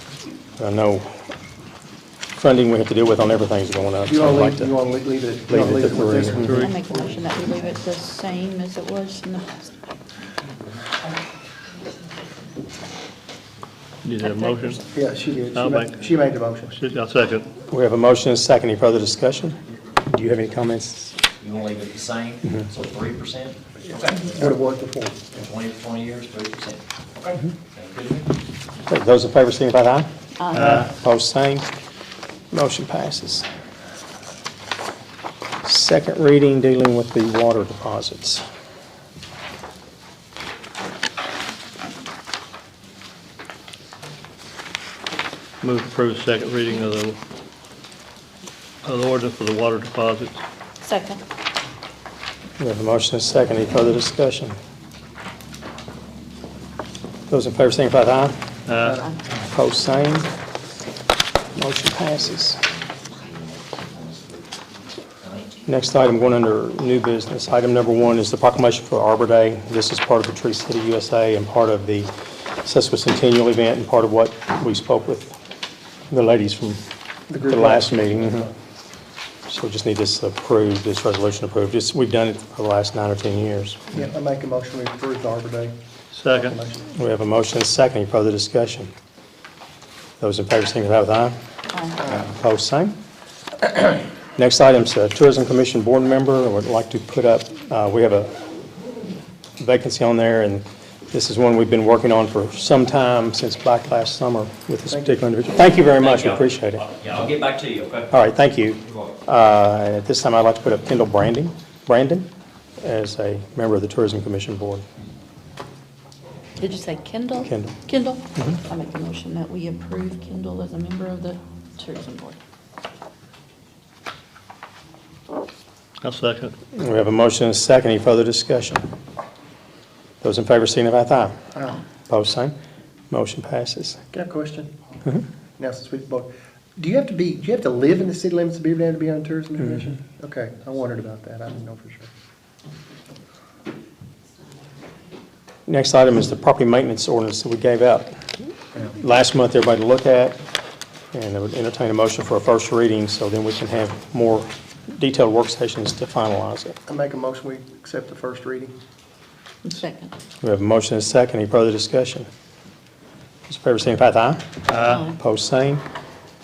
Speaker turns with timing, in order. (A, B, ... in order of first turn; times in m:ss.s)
0:00.6-0:01.2 A
0:02.4-0:04.8 A
0:04.1-0:06.5 B
0:05.5-0:06.7 A
0:06.5-0:09.8 C
0:14.0-0:14.8 D
0:14.2-0:14.8 C
0:14.9-0:16.8 B
0:15.6-0:15.9 D
0:16.8-0:17.4 D
0:17.7-0:21.2 A
0:21.4-0:24.5 E
0:24.2-0:25.2 B
0:25.3-0:28.3 E
0:28.9-0:31.7 A
0:30.4-0:30.8 C
0:32.5-0:33.5 A
0:35.6-0:38.4 A
0:45.6-0:47.2 D
0:48.8-0:50.3 D
0:50.8-0:51.2 C
0:52.6-0:54.6 A
0:57.3-0:58.4 A
0:58.9-0:59.2 C
0:59.5-1:00.3 A
1:01.5-1:02.6 A
1:03.2-1:04.4 E
1:05.7-1:12.1 A
1:12.6-1:15.4 A
1:16.1-1:16.8 A
1:17.3-1:18.5 B
1:17.4-1:18.5 A
1:19.5-1:23.9 A
1:23.9-1:26.8 B
1:26.8-1:28.9 A
1:30.2-1:31.4 A
1:31.7-1:32.0 C
1:32.0-1:33.0 A
1:34.4-1:38.3 A
1:39.6-1:46.9 A
1:44.9-1:45.2 B
1:45.9-1:48.1 E
1:48.1-1:52.3 A
1:52.8-1:54.8 A
1:56.6-2:02.4 C
1:57.4-1:57.7 A
2:06.0-2:06.5 D
2:06.8-2:08.8 A
2:10.2-2:11.4 A
2:12.1-2:12.5 A
2:13.1-2:14.0 A
2:14.1-2:14.7 B
2:15.6-2:22.1 B
2:25.7-2:28.1 A
2:28.9-2:30.4 A
2:31.1-2:36.8 A
2:36.9-2:38.7 B
2:39.6-2:40.1 C
2:40.4-2:42.3 A
2:43.5-2:45.8 A
2:44.8-2:45.2 C